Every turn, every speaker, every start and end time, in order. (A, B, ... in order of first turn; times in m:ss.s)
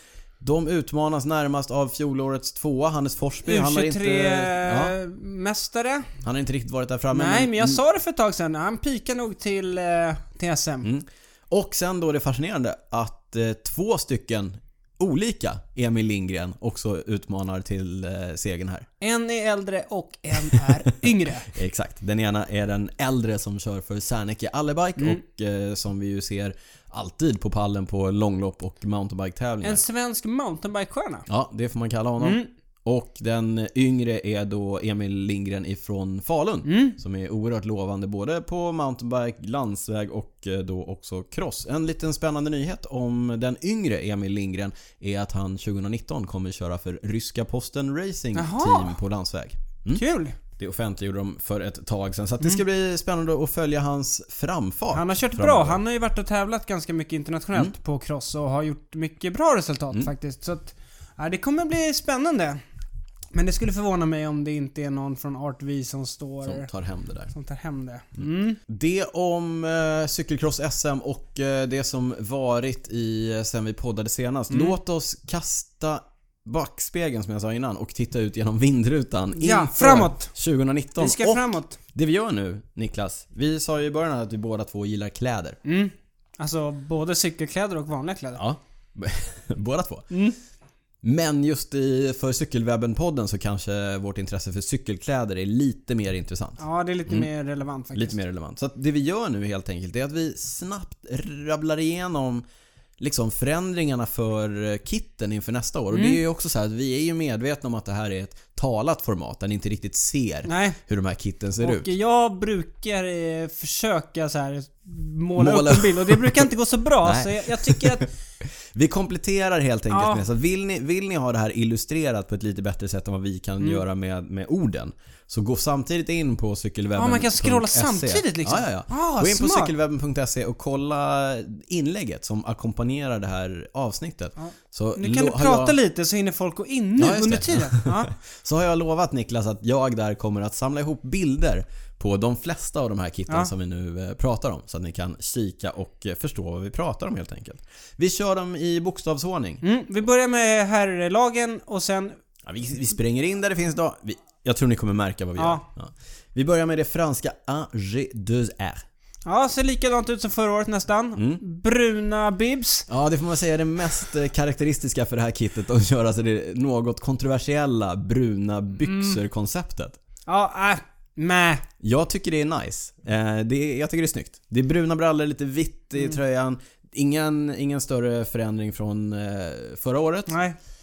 0:00.4-0:05.0 A
0:03.4-0:06.1 B
0:06.2-0:07.8 A
0:07.1-0:10.9 B
0:10.8-0:18.9 A
0:19.0-0:21.5 B
0:21.5-0:29.8 A
0:29.6-0:31.3 B
0:31.3-0:50.0 A
0:32.2-0:32.5 B
0:36.6-0:37.0 B
0:48.4-0:49.0 B
0:49.9-0:50.4 B
0:50.6-0:55.8 A
0:54.9-1:02.6 B
1:03.3-1:06.7 B
1:06.4-1:07.3 A
1:07.3-1:08.6 B
1:08.2-1:25.6 A
1:14.5-1:14.8 B
1:19.4-1:20.3 B
1:21.0-1:21.8 B
1:25.6-1:28.4 B
1:28.4-1:30.1 A
1:30.1-1:30.4 B
1:31.0-1:37.3 A
1:36.6-1:38.2 B
1:38.0-1:42.4 A
1:43.0-1:51.9 A
1:45.9-1:46.2 B
1:50.5-1:50.8 B
1:51.6-1:58.1 B
1:55.4-1:56.5 A
1:57.0-1:58.1 A
1:58.7-2:15.8 A
1:59.9-2:00.2 B
2:07.0-2:09.7 B
2:14.4-2:18.1 B
2:17.0-2:29.6 A
2:29.6-2:32.2 B
2:32.5-2:38.8 A
2:35.4-2:35.6 B
2:39.3-2:42.9 B
2:41.2-2:41.4 A
2:42.9-2:50.0 A
2:48.9-2:49.2 B
2:50.3-2:51.6 B
2:51.8-3:00.3 A
3:00.3-3:00.6 B